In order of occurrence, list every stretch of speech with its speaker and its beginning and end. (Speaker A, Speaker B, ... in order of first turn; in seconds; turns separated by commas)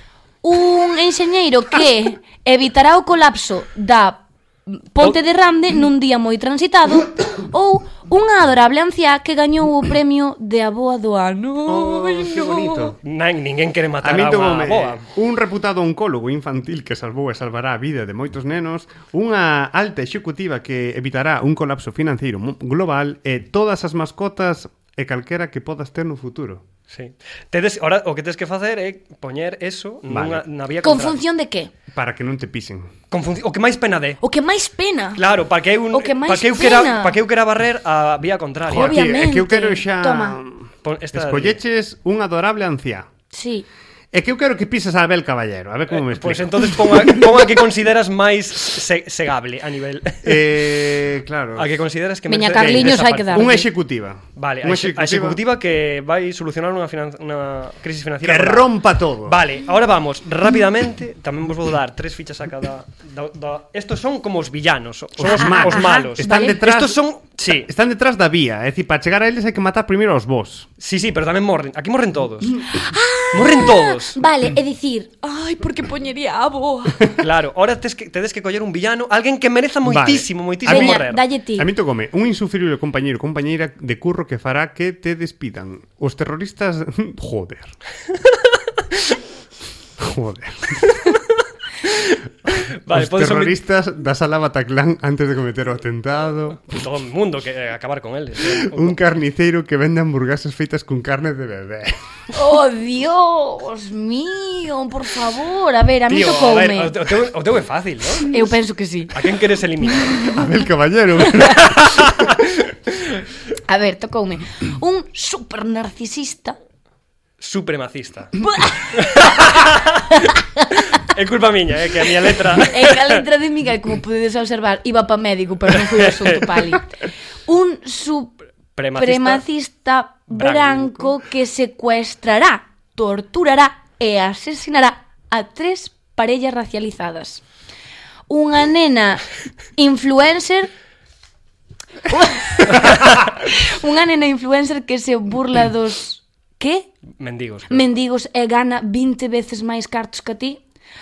Speaker A: 0.4-12.9, Speaker B: 11.7-13.0, Speaker C: 13.0-15.0, Speaker B: 14.0-26.6, Speaker C: 26.9-31.2, Speaker B: 30.1-30.4, Speaker A: 30.8-31.7, Speaker B: 31.9-32.9, Speaker C: 33.1-34.2, Speaker A: 34.2-35.2, Speaker C: 35.1-39.0, Speaker A: 35.9-37.2, Speaker B: 38.7-43.1, Speaker A: 38.7-40.4, Speaker C: 40.8-41.6, Speaker A: 43.3-43.6, Speaker B: 44.1-47.2, Speaker C: 45.9-51.0, Speaker B: 50.2-51.8, Speaker C: 51.5-53.6, Speaker A: 52.3-53.6, Speaker B: 52.5-55.4, Speaker C: 54.4-67.7, Speaker B: 58.2-59.4, Speaker B: 65.2-70.7, Speaker A: 65.2-66.6, Speaker C: 70.8-72.7, Speaker A: 72.7-77.1, Speaker C: 73.3-74.2, Speaker C: 77.2-81.2, Speaker B: 79.8-87.7, Speaker A: 80.7-81.7, Speaker B: 90.0-90.8, Speaker C: 91.8-93.6, Speaker B: 92.9-96.6, Speaker C: 96.7-99.0, Speaker B: 98.4-102.0, Speaker A: 102.3-107.1, Speaker C: 106.1-108.4, Speaker A: 108.2-109.2, Speaker C: 109.1-110.3, Speaker B: 110.3-112.7, Speaker C: 111.9-112.4, Speaker A: 113.7-116.5, Speaker C: 117.4-120.2, Speaker A: 118.4-119.5, Speaker A: 120.1-121.0, Speaker C: 121.0-123.2, Speaker A: 122.3-126.9, Speaker C: 125.7-126.7, Speaker A: 127.5-128.4, Speaker C: 128.8-129.4, Speaker A: 128.9-137.4, Speaker C: 130.3-131.2, Speaker A: 138.3-139.2, Speaker A: 139.8-140.7, Speaker A: 142.1-146.9, Speaker C: 147.2-147.8, Speaker A: 147.7-150.6